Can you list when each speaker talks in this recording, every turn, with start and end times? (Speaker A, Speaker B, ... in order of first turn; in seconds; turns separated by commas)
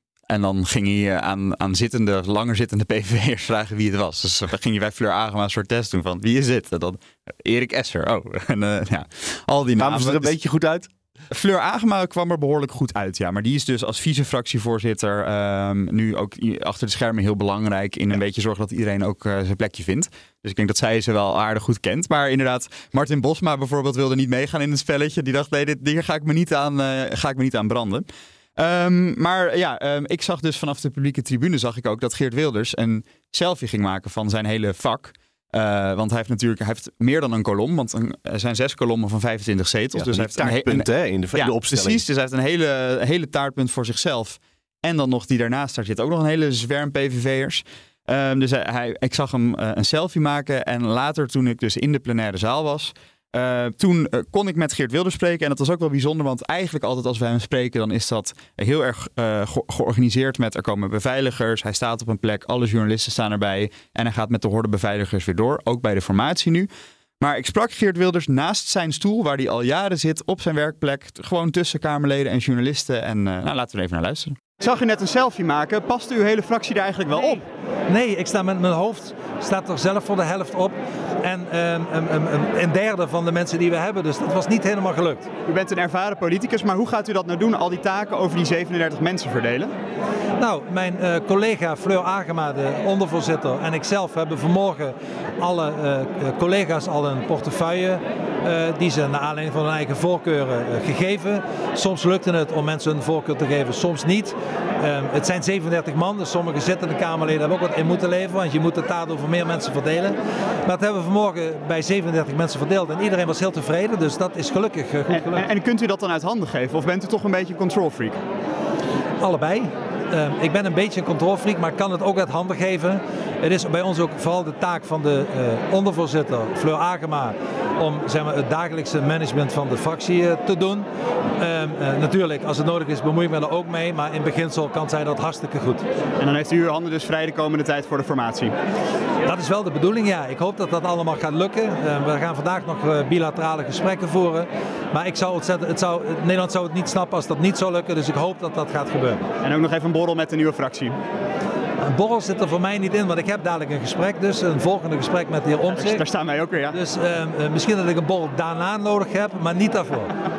Speaker A: 0.3-10.3, Speaker B: 9.8-10.9, Speaker A: 11.3-28.1, Speaker A: 28.6-66.7, Speaker B: 40.0-42.0, Speaker A: 67.2-77.4, Speaker C: 77.9-85.3, Speaker A: 85.5-89.7, Speaker C: 90.4-115.5, Speaker A: 115.1-118.2, Speaker C: 119.2-130.9, Speaker C: 131.4-135.8, Speaker A: 136.2-138.5, Speaker C: 139.2-149.2, Speaker A: 149.4-151.0, Speaker C: 151.8-156.0, Speaker A: 155.7-156.8, Speaker C: 156.7-160.1